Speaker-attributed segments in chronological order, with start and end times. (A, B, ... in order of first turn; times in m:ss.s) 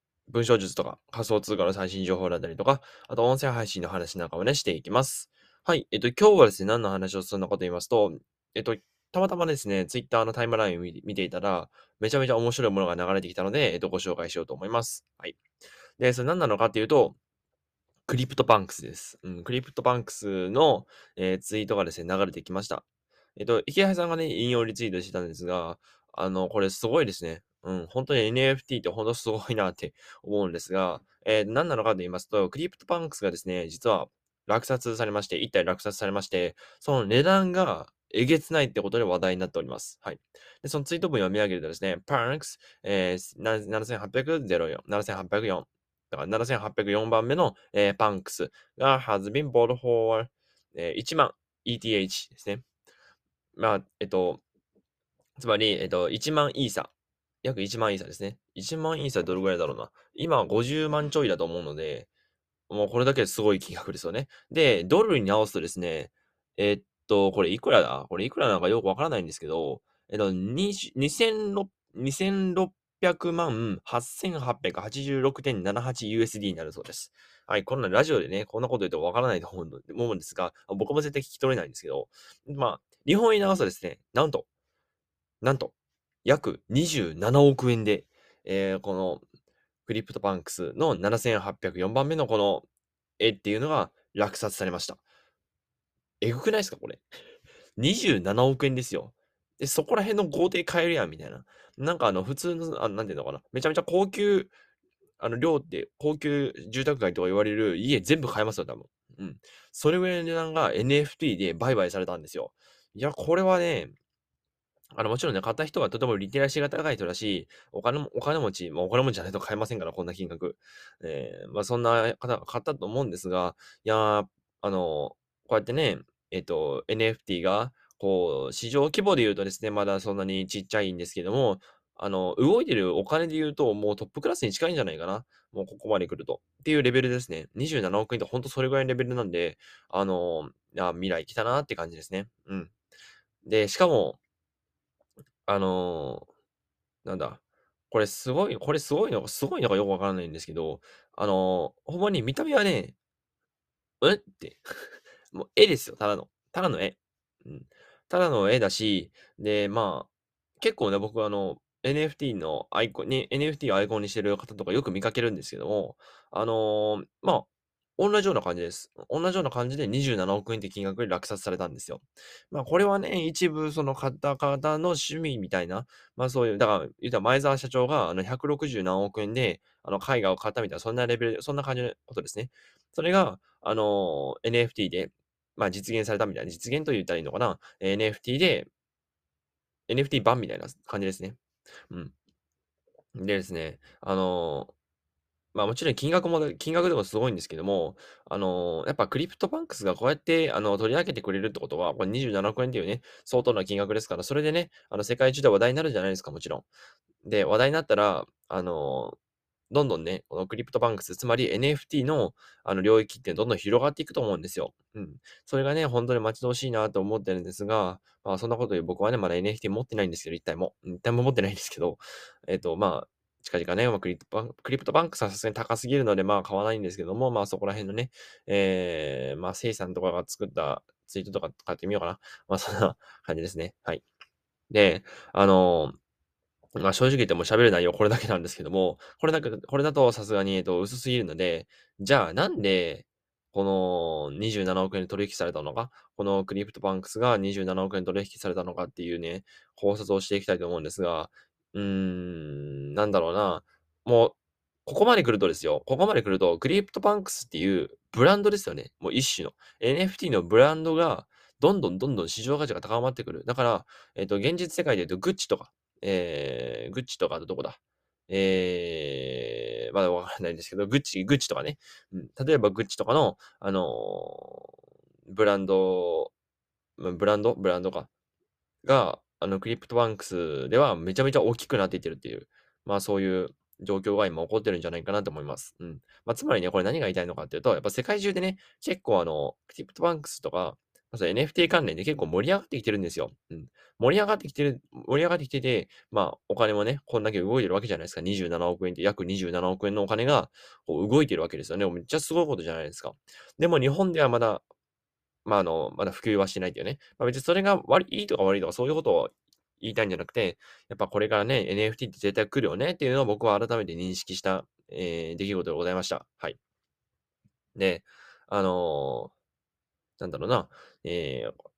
0:00.3-0:15.4 A
0:16.0-0:17.2 A
0:18.1-0:22.8 A
0:23.4-0:52.6 A
0:53.6-0:54.4 A
0:55.4-0:56.9 A
0:57.4-1:02.1 A
1:02.7-1:24.5 A
1:25.4-1:25.7 A
1:26.2-1:29.2 A
1:29.9-1:32.7 A
1:33.2-1:35.0 A
1:36.2-1:37.0 A
1:37.8-1:44.5 A
1:45.2-1:54.0 A
1:54.9-2:22.7 A
2:23.4-2:24.2 A
2:25.5-2:26.3 A
2:27.0-2:32.9 A
2:34.0-2:34.6 A
2:35.3-3:08.7 A
3:09.9-3:11.4 A
3:13.2-3:14.7 A
3:15.5-3:26.7 A
3:27.2-3:29.2 A
3:29.7-3:54.0 A
3:54.7-3:56.0 A
3:56.8-4:34.7 A
4:35.3-4:36.3 A
4:37.0-4:38.1 A
4:38.8-5:04.6 A
5:05.4-5:16.6 A
5:17.8-5:19.3 A
5:20.2-5:21.6 A